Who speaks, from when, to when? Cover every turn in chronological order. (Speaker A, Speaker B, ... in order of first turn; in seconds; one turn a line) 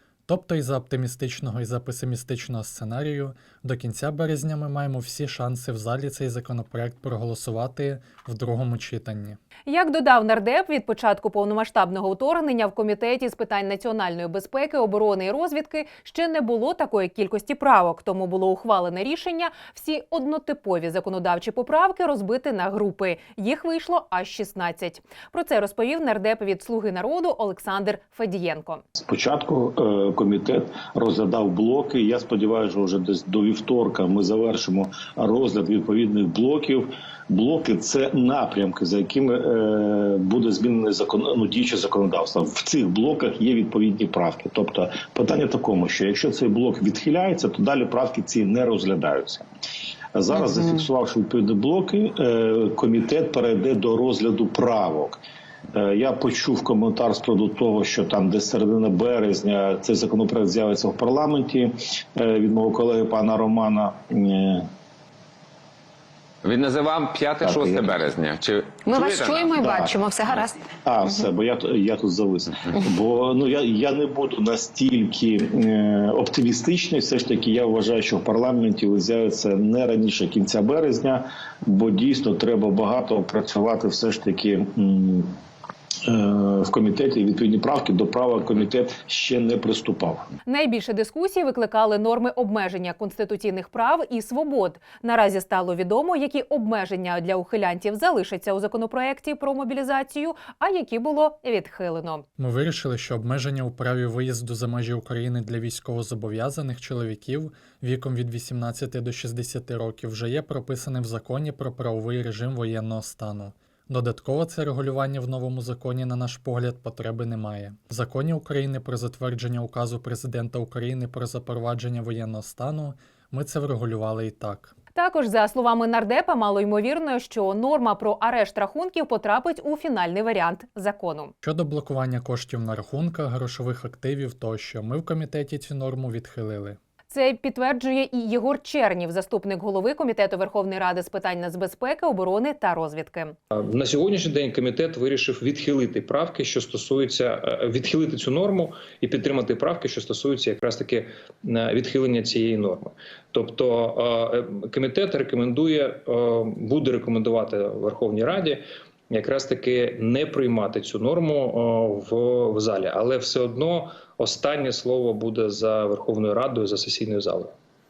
Speaker A: 0.3-9.4
Speaker B: 9.7-28.8
Speaker C: 29.1-49.4
Speaker C: 50.1-55.2
Speaker C: 55.7-64.6
Speaker D: 66.4-70.0
Speaker C: 67.4-68.0
Speaker E: 68.8-71.3
Speaker C: 69.4-70.0
Speaker C: 70.8-85.3
Speaker C: 86.1-90.2
Speaker B: 90.5-102.2
Speaker A: 102.4-124.7
Speaker B: 124.9-131.3
Speaker A: 131.4-136.8
Speaker B: 137.1-143.4
Speaker F: 143.6-167.5